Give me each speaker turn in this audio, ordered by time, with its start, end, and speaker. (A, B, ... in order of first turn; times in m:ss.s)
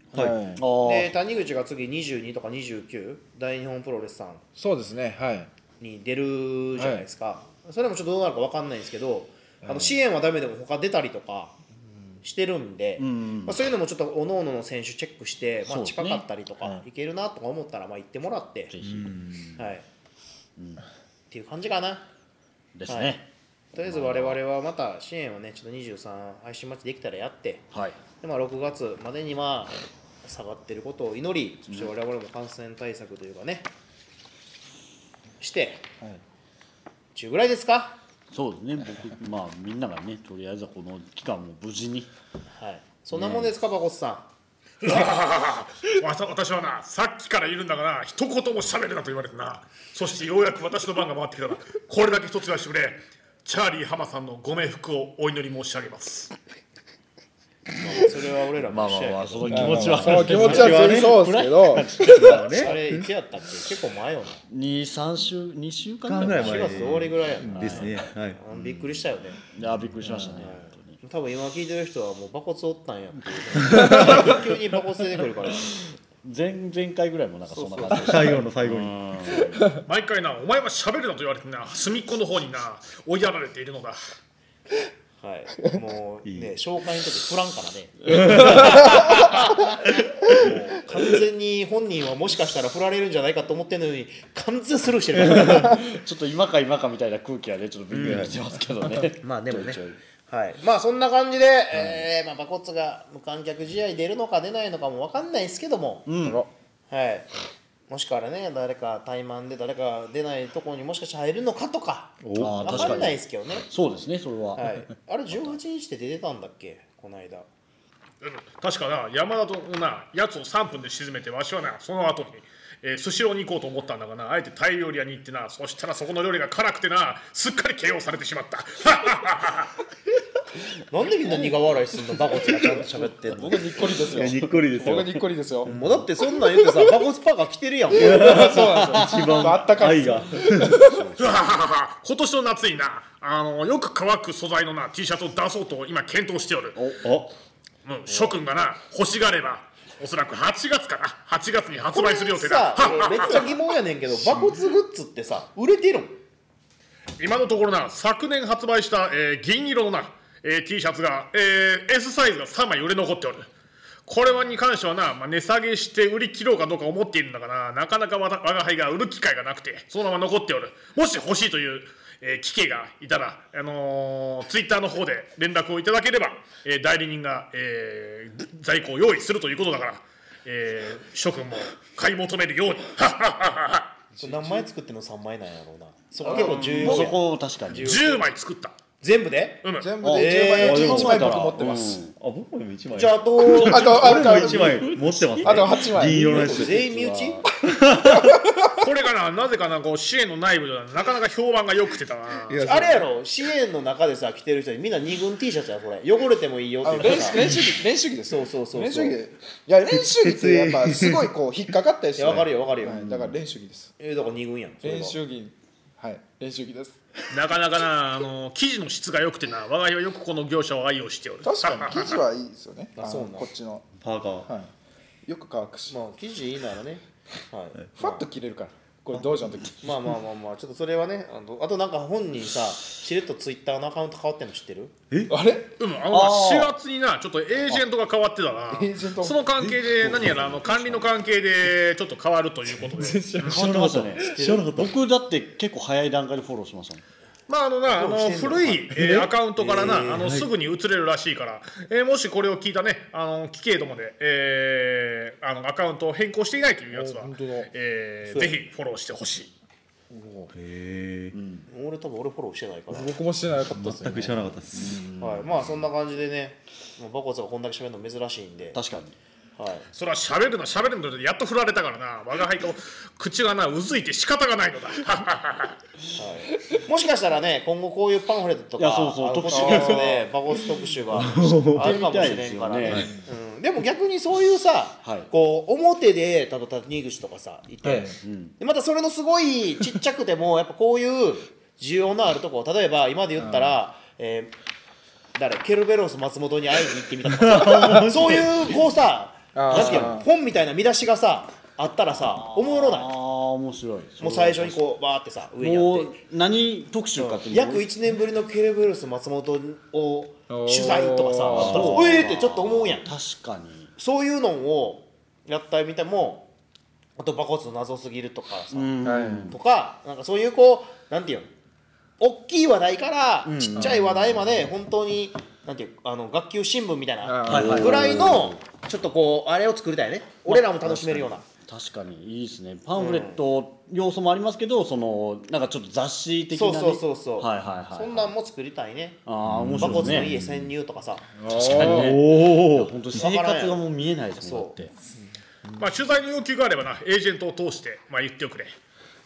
0:00.1-0:01.2 A
0:00.1-0:00.6 B
0:00.8-0:04.4 C
0:04.6-0:05.5 B
0:05.8-0:11.5 C
0:06.8-0:07.0 B
0:09.6-0:09.9 B
0:12.2-0:18.7 C
0:13.0-0:13.6 A
0:15.7-0:16.2 A
0:18.7-0:19.7 A
0:18.8-0:19.3 D
0:19.6-0:19.8 C
0:20.6-0:20.8 A
0:21.3-0:22.0 C
0:22.7-0:24.4 A
0:22.9-0:23.2 C
0:23.7-0:27.6 C
0:27.7-0:28.0 A
0:28.2-0:33.7 C
0:35.4-0:35.8 C
0:37.1-0:38.0 C
0:38.3-0:42.1 A
0:42.5-0:44.3 C
0:43.1-0:43.5 A
0:44.8-0:56.3 E
0:57.8-1:00.6 C
0:58.6-1:02.7 A
0:59.5-1:02.7 B
0:59.5-1:01.4 D
1:01.9-1:02.8 D
1:02.6-1:04.4 C
1:04.5-1:08.0 A
1:06.0-1:08.4 D
1:06.3-1:09.4 C
1:09.5-1:11.0 A
1:10.2-1:15.8 C
1:13.4-1:14.4 A
1:13.7-1:14.0 D
1:15.4-1:19.7 A
1:17.5-1:18.4 C
1:18.0-1:19.0 D
1:19.9-1:24.0 E
1:25.2-1:29.7 C
1:26.2-1:26.5 D
1:28.1-1:28.9 D
1:30.3-1:35.9 C
1:35.2-1:40.0 A
1:37.9-1:38.3 C
1:38.0-1:38.3 D
1:39.2-1:46.0 C
1:41.7-1:42.0 A
1:46.0-1:46.4 A
1:46.2-1:46.5 B
1:46.9-1:47.3 C
1:47.9-1:53.6 C
1:52.2-1:53.1 D
1:52.4-1:55.6 A
1:54.5-1:57.4 C
1:58.2-2:09.7 E
2:10.9-2:14.0 C
2:13.2-2:15.7 B
2:13.9-2:16.0 D
2:15.6-2:18.6 C
2:16.3-2:16.9 B
2:17.9-2:20.9 D
2:17.9-2:21.0 B
2:19.0-2:19.3 A
2:20.8-2:21.4 A
2:21.2-2:26.8 E
2:27.0-2:27.3 D
2:27.8-2:33.5 E
2:28.1-2:28.3 C
2:31.9-2:36.2 C
2:37.2-2:43.5 E
2:44.0-3:03.9 E
3:04.1-3:04.6 B
3:04.2-3:08.3 C
3:06.2-3:07.1 B
3:06.3-3:07.9 A
3:06.5-3:07.1 D
3:07.8-3:08.8 E
3:09.0-3:11.2 C
3:09.6-3:09.9 E
3:09.8-3:12.0 B
3:10.0-3:12.1 A
3:10.5-3:16.9 D
3:12.9-3:14.3 C
3:13.6-3:16.5 B
3:14.2-3:17.5 A
3:16.3-3:17.4 C
3:17.6-3:18.8 B
3:17.6-3:18.4 D
3:18.7-3:22.7 E
3:22.5-3:23.0 B
3:22.5-3:27.5 C
3:26.8-3:33.9 B
3:27.0-3:27.7 D
3:28.3-3:29.2 C
3:29.9-3:31.3 D
3:32.2-3:33.0 C
3:32.9-3:33.4 A
3:34.0-3:35.2 C
3:34.8-3:37.0 B
3:37.3-3:42.2 E
3:41.4-3:43.9 B
3:42.9-3:43.5 C
3:44.0-3:44.5 D
3:44.4-3:44.7 B
3:45.2-3:46.0 B
3:45.9-3:48.2 C
3:48.0-3:49.9 B
3:49.1-3:49.5 D
3:49.8-3:54.9 C
3:55.3-3:55.7 B
3:55.8-4:03.6 E
3:56.1-3:56.8 A
3:58.7-3:59.6 B
4:00.0-4:00.5 D
4:00.0-4:00.9 A
4:02.8-4:03.7 B
4:03.4-4:04.9 D
4:03.4-4:07.0 A
4:04.1-4:04.7 C
4:07.5-4:19.5 E
4:07.9-4:10.4 C
4:09.0-4:09.3 B
4:10.0-4:10.5 D
4:16.9-4:17.7 B
4:18.3-4:18.6 C
4:20.1-4:20.5 B
4:20.5-4:21.4 D
4:21.3-4:21.7 A
4:21.7-4:23.2 C
4:22.9-4:24.5 B
4:23.7-4:25.0 D
4:24.7-4:25.5 A
4:25.2-4:28.8 C
4:28.7-4:29.1 A
4:29.6-4:29.9 C
4:29.9-4:35.8 E
4:36.2-4:54.5 C
4:38.8-4:40.2 A
4:39.5-4:40.2 B
4:41.1-4:42.0 D
4:41.2-4:43.1 A
4:45.0-4:45.3 A
4:47.8-4:48.2 B
4:48.2-4:48.5 A
4:53.4-4:53.8 B
4:55.4-5:03.1 C
4:57.2-4:58.8 D
4:59.5-5:00.2 B
4:59.7-5:00.1 A
5:02.2-5:04.8 A
5:04.2-5:06.2 C
5:05.6-5:07.9 A
5:07.2-5:13.1 C
5:10.5-5:12.0 B
5:11.5-5:13.9 A
5:11.5-5:12.0 D
5:14.0-5:16.5 C
5:17.2-5:21.5 C
5:18.7-5:19.6 A
5:19.0-5:19.5 B
5:22.2-5:31.4 C
5:23.4-5:24.6 A
5:23.8-5:24.0 B
5:27.2-5:28.2 B
5:27.4-5:28.6 A
5:30.5-5:38.3 A
5:32.9-5:33.4 C
5:36.5-5:39.2 C
5:39.2-5:40.4 A
5:39.5-5:40.7 D
5:39.8-5:41.3 C
5:41.4-5:42.1 B
5:41.5-5:44.9 A
5:41.7-5:43.0 D
5:43.1-5:43.8 C
5:44.4-5:44.7 C
5:45.6-5:45.9 B
5:45.8-5:48.7 E